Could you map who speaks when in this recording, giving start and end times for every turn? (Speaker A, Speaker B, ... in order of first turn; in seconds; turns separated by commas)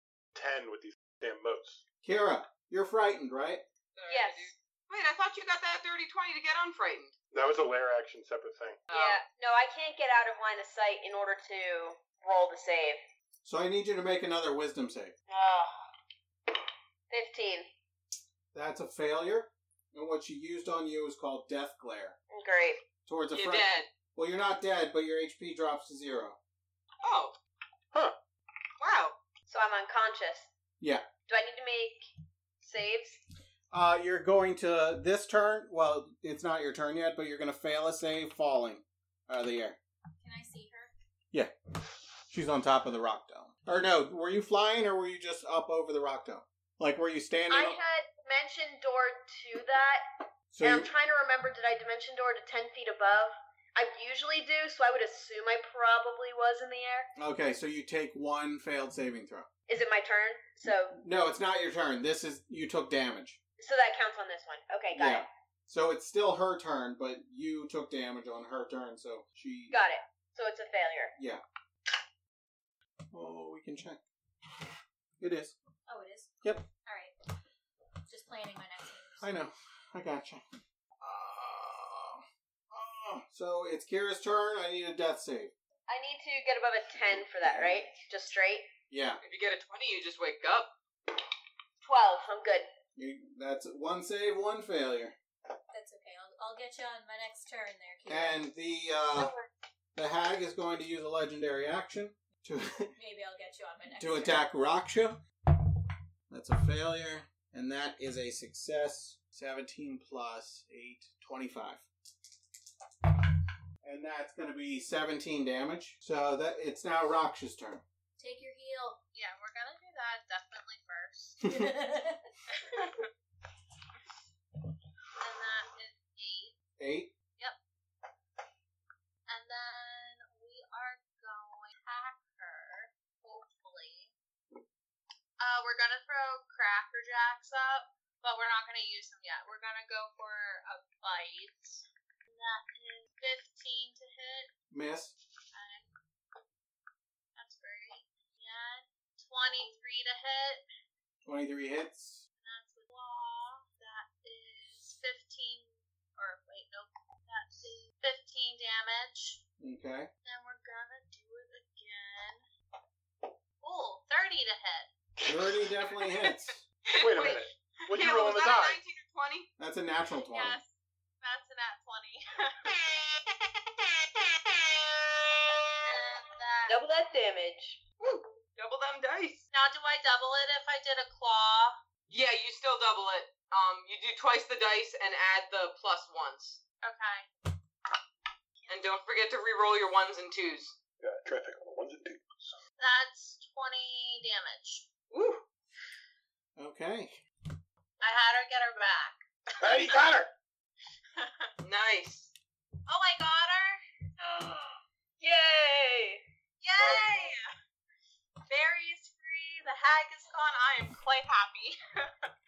Speaker A: 0.3-1.8, Speaker B: 2.0-3.6, Speaker C: 3.9-7.1, Speaker D: 4.1-4.5, Speaker A: 7.3-8.8, Speaker C: 8.9-9.2, Speaker D: 8.9-13.0, Speaker B: 13.4-15.1, Speaker D: 15.3-15.8, Speaker D: 17.1-17.7, Speaker B: 18.5-22.2, Speaker D: 22.3-22.8, Speaker B: 23.1-26.4, Speaker C: 23.3-23.9, Speaker C: 27.0-27.3, Speaker C: 28.8-29.1, Speaker D: 29.5-30.5, Speaker B: 30.8-31.1, Speaker D: 31.2-32.1, Speaker D: 32.6-33.2, Speaker B: 33.7-39.8, Speaker E: 40.2-40.9, Speaker B: 42.3-47.8, Speaker D: 47.5-50.0, Speaker B: 50.5-50.9, Speaker D: 50.6-57.1, Speaker B: 57.1-59.5, Speaker D: 59.7-61.0, Speaker B: 61.0-63.4, Speaker D: 63.6-65.3, Speaker B: 64.9-69.8, Speaker D: 69.7-71.1, Speaker B: 71.2-71.4, Speaker B: 73.1-74.0, Speaker B: 75.2-75.5, Speaker E: 75.9-77.1, Speaker E: 78.1-79.3, Speaker B: 79.2-80.4, Speaker B: 81.0-85.5, Speaker D: 85.9-88.7, Speaker B: 87.4-87.8, Speaker B: 88.9-89.2, Speaker C: 89.2-90.7, Speaker D: 91.8-92.7, Speaker B: 93.0-95.1, Speaker E: 95.7-98.5, Speaker B: 98.1-99.3, Speaker D: 99.2-99.4, Speaker B: 99.9-102.9, Speaker E: 103.0-104.4, Speaker B: 104.0-105.2, Speaker B: 106.3-111.8, Speaker B: 113.8-117.8, Speaker E: 118.2-119.0, Speaker F: 119.1-121.4, Speaker E: 121.4-122.3, Speaker F: 122.5-123.1, Speaker F: 125.2-126.5, Speaker B: 126.8-127.1, Speaker F: 129.3-134.1, Speaker F: 135.4-144.5, Speaker B: 144.7-145.1, Speaker F: 145.5-145.9, Speaker F: 147.3-150.6, Speaker B: 151.2-152.2, Speaker F: 152.4-159.4, Speaker B: 159.6-160.1, Speaker F: 160.2-162.4, Speaker F: 163.6-164.9, Speaker A: 165.2-165.7, Speaker B: 165.2-166.6, Speaker C: 166.0-166.3, Speaker C: 166.9-169.5, Speaker A: 167.0-168.8, Speaker B: 169.6-170.6, Speaker F: 170.2-172.8, Speaker F: 175.8-176.8, Speaker D: 176.7-177.8, Speaker C: 178.0-179.5, Speaker F: 179.5-181.8, Speaker C: 182.1-186.6, Speaker F: 186.8-187.3, Speaker F: 188.6-188.9, Speaker C: 188.7-190.8, Speaker A: 191.0-192.6, Speaker F: 192.8-194.8, Speaker C: 195.1-195.4, Speaker B: 196.6-197.2, Speaker F: 198.0-200.0, Speaker A: 199.6-200.3, Speaker F: 201.2-201.5, Speaker C: 201.6-202.3, Speaker F: 202.9-204.8, Speaker D: 205.2-206.2, Speaker F: 206.6-207.5, Speaker A: 206.8-207.1, Speaker F: 208.5-212.3